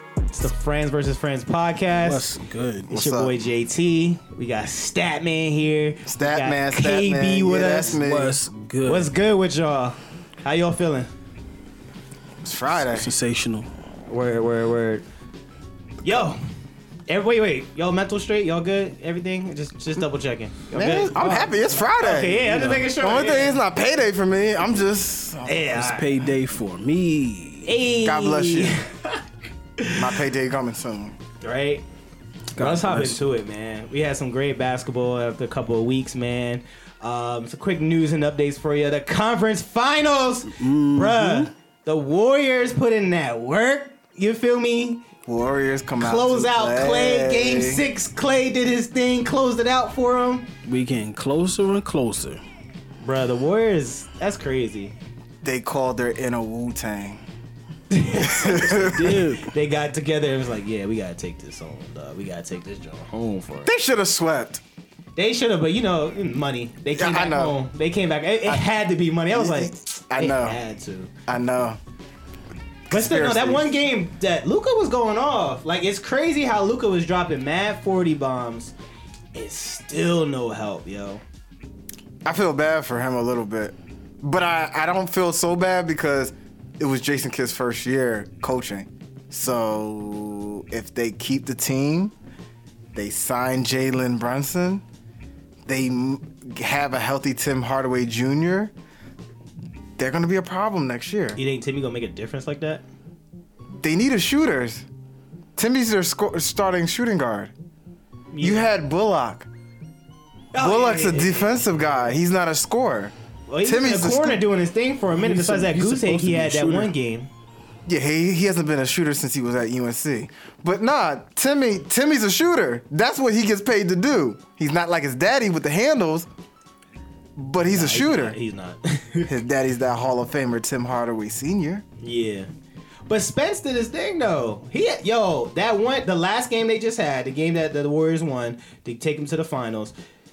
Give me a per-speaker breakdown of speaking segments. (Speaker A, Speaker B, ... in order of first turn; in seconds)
Speaker A: 0.3-2.3, 2.9-8.0, 8.9-11.1, 14.1-15.0, 16.0-16.4, 17.1-23.6, 25.5-26.1, 27.6-29.2, 29.8-30.1, 31.4-31.8, 32.6-45.0, 46.0-50.5, 53.0-54.9, 57.9-63.7, 65.2-71.1, 72.9-78.7, 79.3-81.2, 101.4-102.8, 108.3-108.7, 110.5-111.8, 113.5-117.3, 127.7-129.3, 132.0-132.5, 133.1-139.9
Speaker B: 2.0-2.9, 7.9-9.1, 12.7-13.7, 22.4-22.9, 25.7-27.7, 32.5-33.2, 40.5-41.5, 50.7-52.4, 58.9-59.5, 115.2-116.9
Speaker C: 2.9-3.3, 6.1-8.4, 12.4-13.1, 20.7-25.7, 28.1-28.8, 30.0-31.2, 45.3-47.8, 55.4-57.2, 58.1-59.2, 63.6-64.6, 67.0-67.6, 69.3-70.6, 71.3-71.8, 72.9-73.7, 82.2-92.1, 92.9-94.8, 95.7-98.7, 100.0-101.4, 103.8-104.8, 105.6-107.5, 108.4-109.5, 110.5-114.4, 117.9-126.3, 127.4-128.4, 129.3-131.8